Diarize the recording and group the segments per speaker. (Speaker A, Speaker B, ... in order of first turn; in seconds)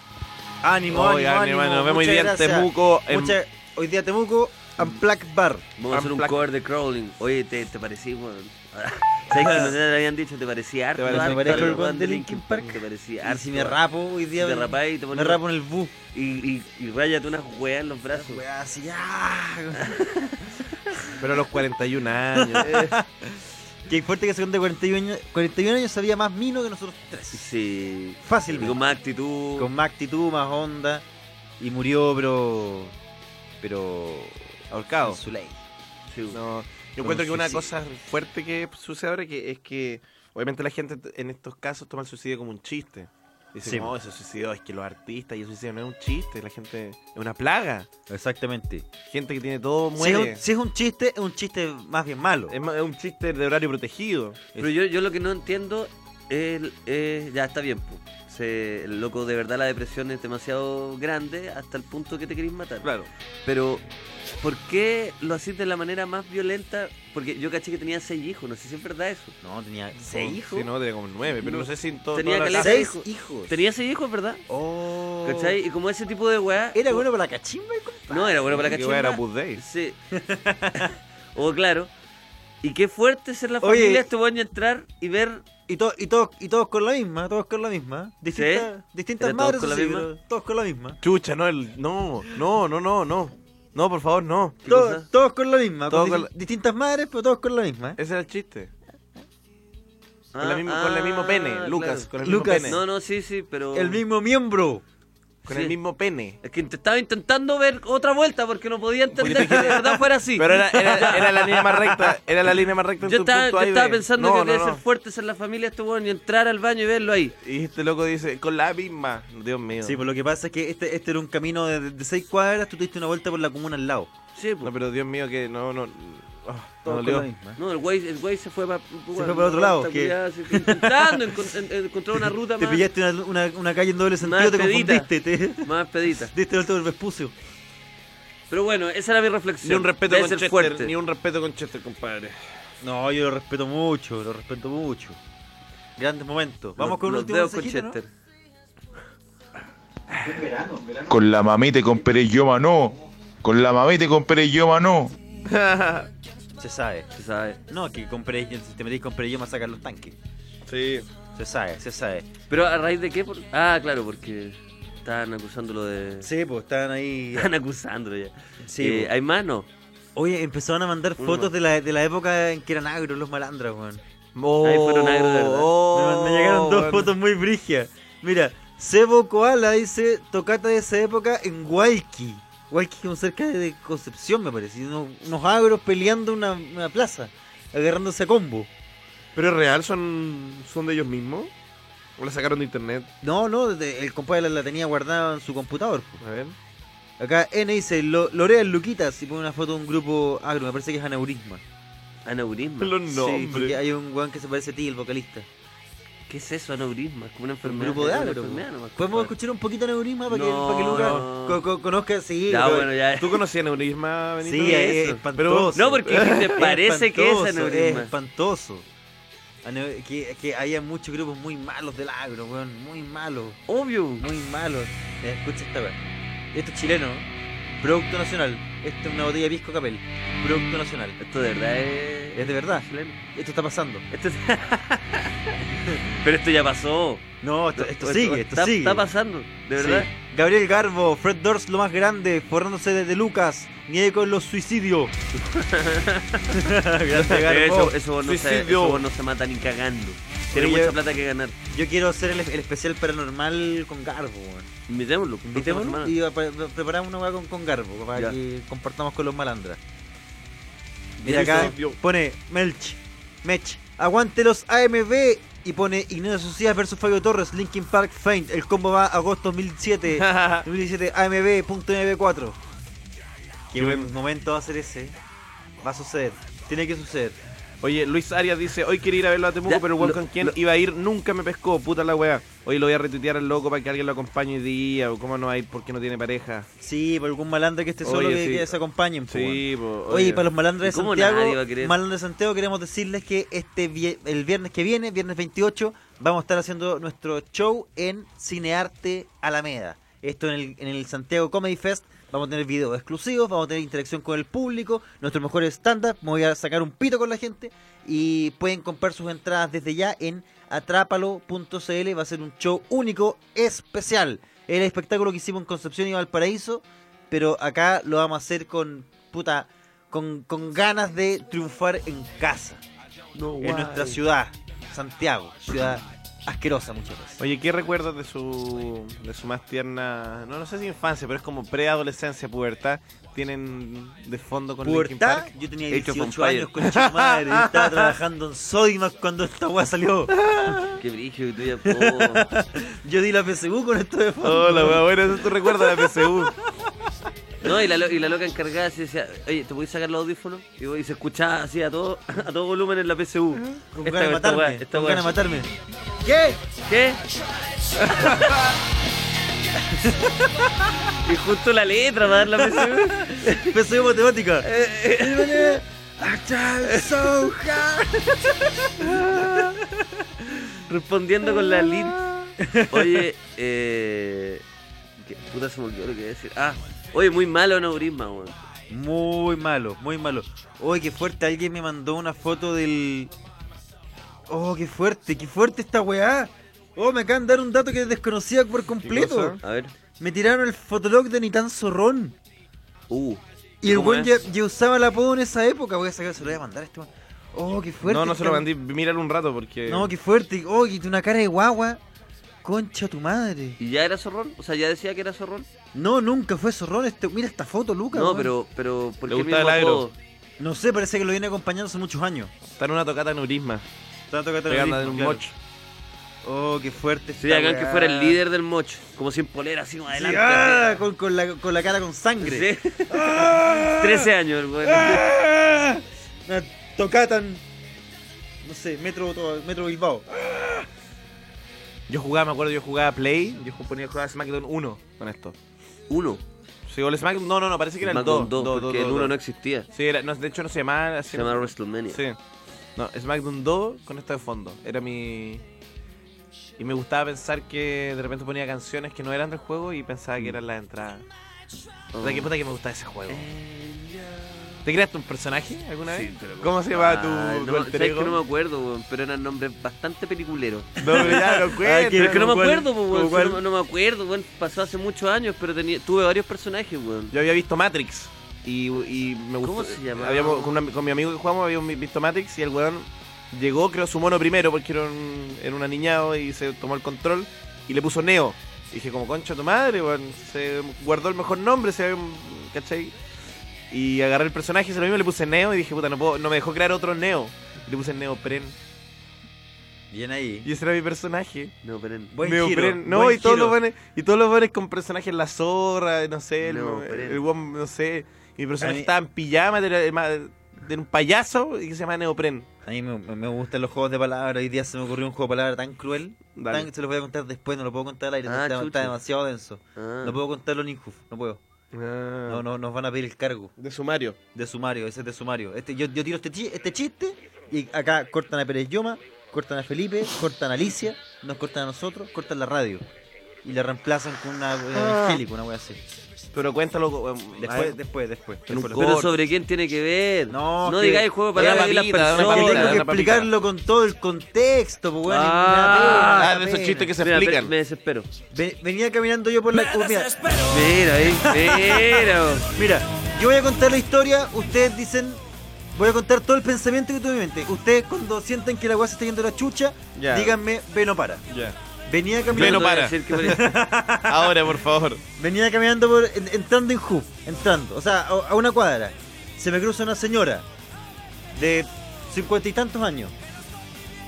Speaker A: 0.6-5.6, 11.1-15.9, 18.1-21.2, 22.4-27.5, 28.2-28.8, 29.5-31.0, 31.6-32.9, 33.6-35.6, 37.0-37.7, 43.6-43.9, 48.1-48.9, 50.0-52.5, 69.4-70.7, 72.5-73.6, 74.5-75.5, 76.7-78.7, 80.1-80.9, 83.6-84.0, 85.7-91.0, 94.7-98.0, 102.2-102.8, 103.7-104.8, 119.8-124.1, 126.8-127.6, 129.1-131.2, 132.6-135.7, 136.3-137.3, 142.8-145.2, 146.0-148.0, 150.2-151.0, 156.6-157.1, 157.7-160.1, 161.3-162.3, 166.2-167.5, 168.6-169.1, 170.2-174.0, 175.9-188.7, 193.2-196.2, 197.2-201.6, 203.1-205.4, 207.6-212.9, 214.4-218.8, 219.6-223.6, 224.2-226.0, 226.5-227.3, 227.8-231.2, 232.3-234.0, 237.4-239.1, 239.8-245.1, 246.5-247.9, 250.5-251.0, 251.7-254.7, 255.4-259.8, 261.2-272.6, 273.7-275.1, 275.8-277.4, 286.8-322.8, 323.6-327.4, 334.8-340.3, 341.9-345.1, 345.7-346.2, 354.0-355.7, 356.2-356.6, 359.9-360.7, 362.6-369.9, 372.6-373.2, 378.9-383.3, 384.5-389.6, 390.1-392.4, 393.8-398.6, 399.9-402.0, 402.6-403.8, 405.9-408.5, 410.6-412.5, 414.3-415.4, 416.4-418.4, 420.1-424.2, 424.8-427.6, 428.6-430.8, 461.1-463.6, 490.1-490.7, 492.3-493.8, 498.8-499.1, 502.9-511.6, 512.5-513.7, 514.5-523.0, 523.6-526.0, 527.6-529.3, 530.5-537.1, 538.5-540.3, 541.3-542.1, 542.7-545.4, 546.0-551.4, 552.1-554.5, 555.4-560.6, 561.5-563.3
Speaker B: 0.9-3.4, 5.9-6.4, 9.3-9.6, 10.9-11.9, 21.2-22.9, 34.7-35.2, 36.3-47.9, 49.1-50.4, 52.5-54.5, 62.8-63.1, 70.0-72.9, 78.5-79.6, 91.0-94.6, 95.9-96.3, 98.0-98.7, 100.4-102.8, 105.5-106.4, 109.1-114.8, 117.4-120.0, 124.6-127.3, 139.6-142.4, 155.4-156.1, 160.7-161.1, 174.3-177.1, 189.3-191.5, 192.2-193.1, 196.2-196.5, 202.8-203.8, 210.9-211.3, 212.6-216.6, 247.2-249.1, 261.2-262.0, 270.1-270.6, 273.8-274.1, 277.8-286.7, 288.0-290.5, 323.4-323.9, 327.4-335.5, 336.8-338.1, 340.4-340.8, 344.4-346.5, 389.0-389.6, 398.0-400.1, 409.3-410.1, 412.8-413.8, 414.7-415.5, 432.1-435.5, 436.9-439.4, 439.9-442.4, 442.9-445.6, 446.8-451.2, 452.2-453.5, 454.8-458.4, 461.0-462.6, 467.3-483.1, 483.9-488.7, 490.6-491.7, 492.4-502.7, 506.6-506.9, 511.9-512.6, 513.8-514.4, 524.9-525.4, 526.5-528.0, 528.7-529.3, 531.5-533.5, 536.0-537.7, 550.1-550.6, 551.5-551.7, 552.5-555.2
Speaker C: 5.8-13.8, 14.4-15.4, 16.1-18.4, 27.3-29.7, 36.1-36.4, 54.6-62.9, 63.4-63.8, 64.4-69.3, 71.4-74.4, 75.2-77.0, 78.1-80.0, 81.3-81.9, 82.6-85.4, 88.3-90.1, 94.6-95.0, 100.3-104.0, 105.5-105.8, 106.4-112.1, 113.0-117.3, 124.3-124.7, 127.6-132.8, 134.2-135.1, 135.6-136.3, 138.5-140.9, 146.8-148.1, 157.1-157.6, 162.5-166.3, 167.3-169.7, 171.2-171.5, 174.6-175.7, 202.2-203.0, 206.3-209.3, 210.3-211.6, 212.5-213.4, 214.5-215.2, 215.7-218.1, 223.7-224.2, 231.2-233.2, 234.1-235.3, 236.2-237.2, 237.8-240.1, 245.4-246.5, 247.4-251.5, 254.9-256.1, 279.6-280.5, 290.8-291.9, 323.4-324.2, 335.9-336.7, 341.0-342.5, 347.6-355.4, 356.8-357.2, 358.0-358.5, 361.2-363.8, 364.6-365.8, 366.8-367.8, 370.9-374.6, 375.2-378.6, 389.6-389.9, 393.1-394.3, 403.8-405.7, 408.1-410.1, 417.4-421.0, 422.4-425.3, 436.1-436.4, 438.0-439.9, 441.3-442.2, 452.1-452.5, 453.3-454.9, 456.0-461.3, 462.1-467.3, 469.6-470.8, 491.8-492.3, 496.6-497.4, 508.4-509.2, 509.9-510.4, 528.8-533.0, 535.2-536.5, 537.2-538.3, 540.6-542.7, 552.5-553.7
Speaker D: 151.1-155.1